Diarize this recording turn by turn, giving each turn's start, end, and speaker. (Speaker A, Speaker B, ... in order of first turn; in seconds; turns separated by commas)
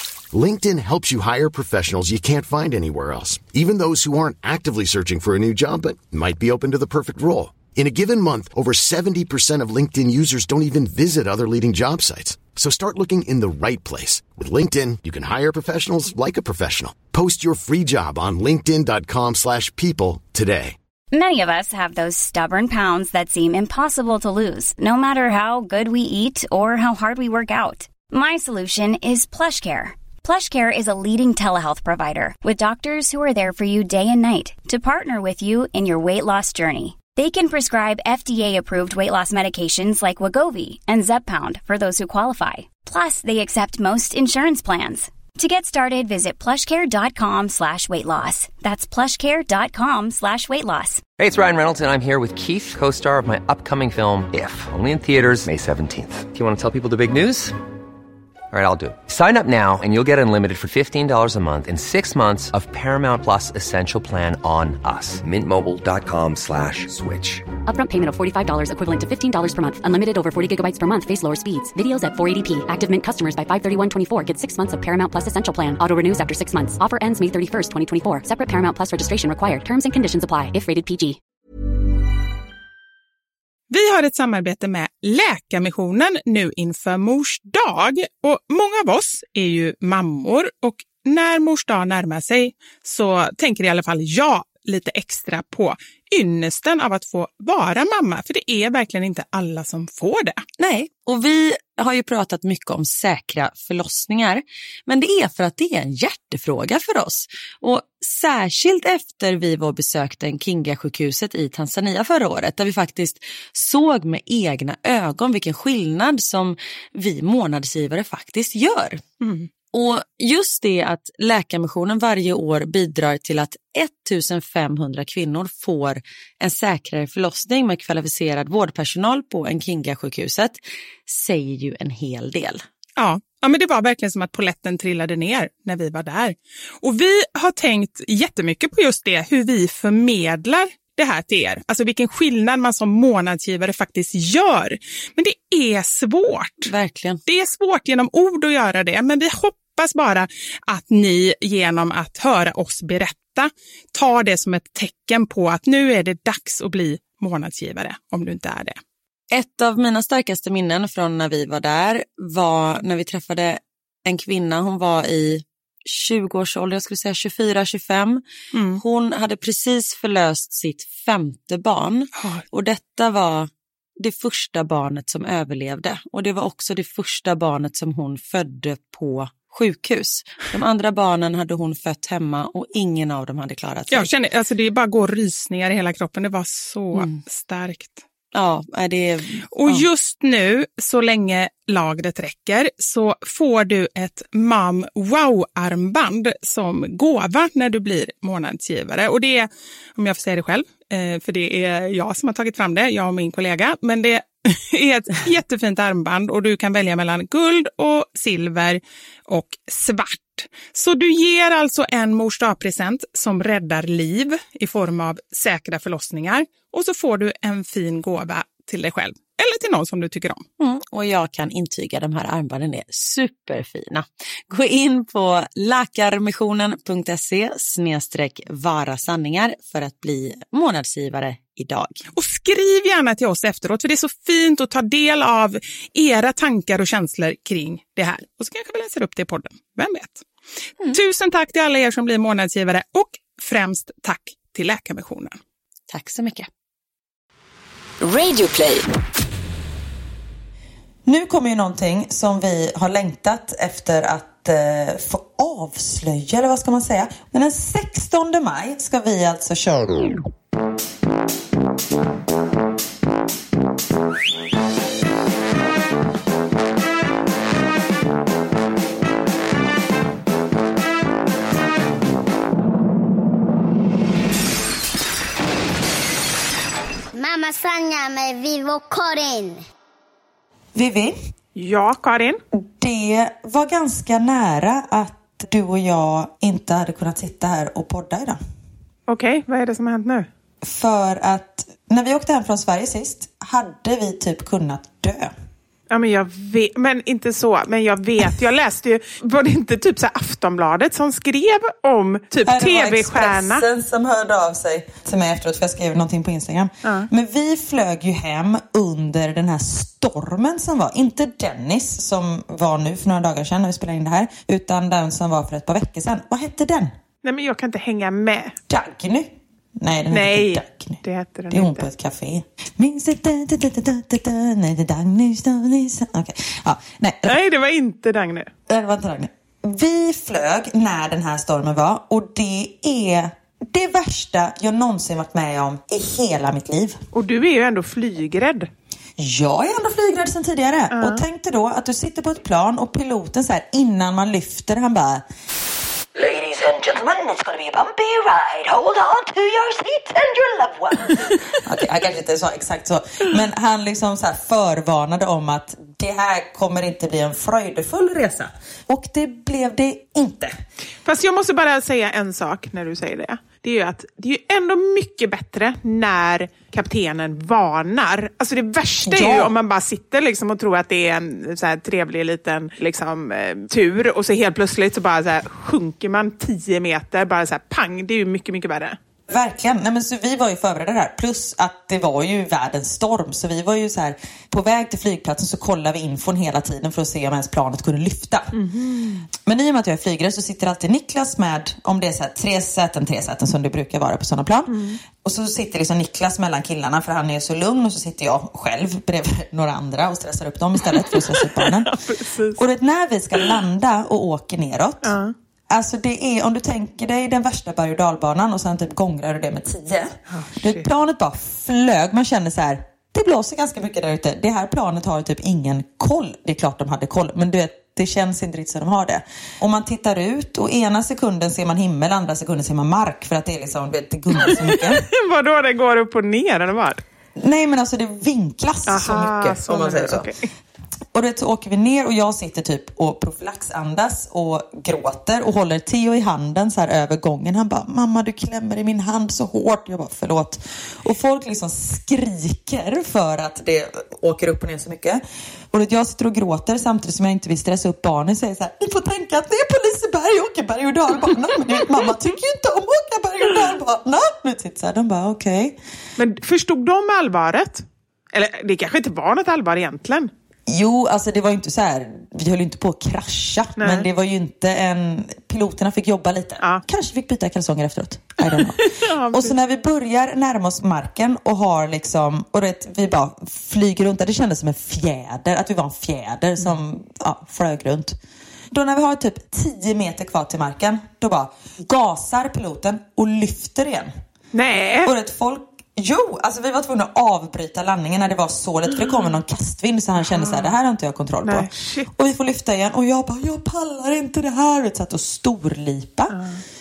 Speaker A: 0.3-20.8, Speaker B: 21.1-51.0, Speaker C: 51.2-57.5, Speaker C: 58.5-67.5, Speaker D: 67.7-81.2, Speaker E: 83.7-100.4, Speaker F: 100.6-119.0, Speaker F: 119.7-132.7, Speaker E: 133.0-146.7, Speaker F: 146.7-147.2, Speaker E: 147.3-158.8, Speaker F: 159.3-184.1, Speaker E: 168.5-168.8, Speaker E: 183.9-188.0, Speaker F: 186.9-187.2, Speaker F: 188.3-189.9, Speaker E: 189.6-220.4, Speaker F: 220.6-232.1, Speaker E: 232.2-240.3, Speaker E: 240.9-245.4, Speaker F: 245.9-246.5, Speaker F: 248.0-248.9, Speaker G: 251.1-260.2, Speaker H: 277.1-279.6, Speaker G: 280.8-281.2, Speaker E: 281.6-282.4, Speaker G: 282.6-288.4, Speaker E: 289.1-290.3, Speaker G: 290.6-295.3, Speaker E: 295.9-303.6, Speaker G: 302.5-316.9, Speaker E: 317.2-318.6, Speaker G: 318.7-321.0, Speaker E: 320.1-321.9, Speaker G: 321.5-327.4, Speaker E: 327.3-328.5, Speaker G: 328.7-337.0, Speaker E: 337.1-338.7, Speaker G: 339.2-345.2, Speaker E: 340.9-341.2, Speaker F: 346.2-351.1, Speaker G: 351.6-360.5, Speaker E: 361.1-379.0, Speaker G: 369.1-369.5, Speaker G: 379.3-388.5, Speaker E: 388.5-389.2, Speaker G: 389.4-402.0, Speaker E: 394.7-395.0, Speaker E: 400.9-402.6, Speaker G: 402.6-405.1, Speaker E: 405.0-405.3, Speaker G: 405.7-425.1, Speaker E: 410.3-410.9, Speaker E: 424.4-427.0, Speaker G: 427.4-430.3, Speaker E: 428.9-430.5, Speaker G: 431.1-445.2, Speaker G: 445.7-455.8, Speaker E: 456.2-460.3, Speaker G: 460.7-478.2, Speaker E: 463.8-464.1, Speaker E: 468.6-469.6, Speaker G: 478.7-484.1, Speaker E: 484.5-485.1, Speaker G: 485.1-496.4, Speaker E: 490.3-490.7, Speaker E: 491.4-492.1, Speaker E: 496.3-496.6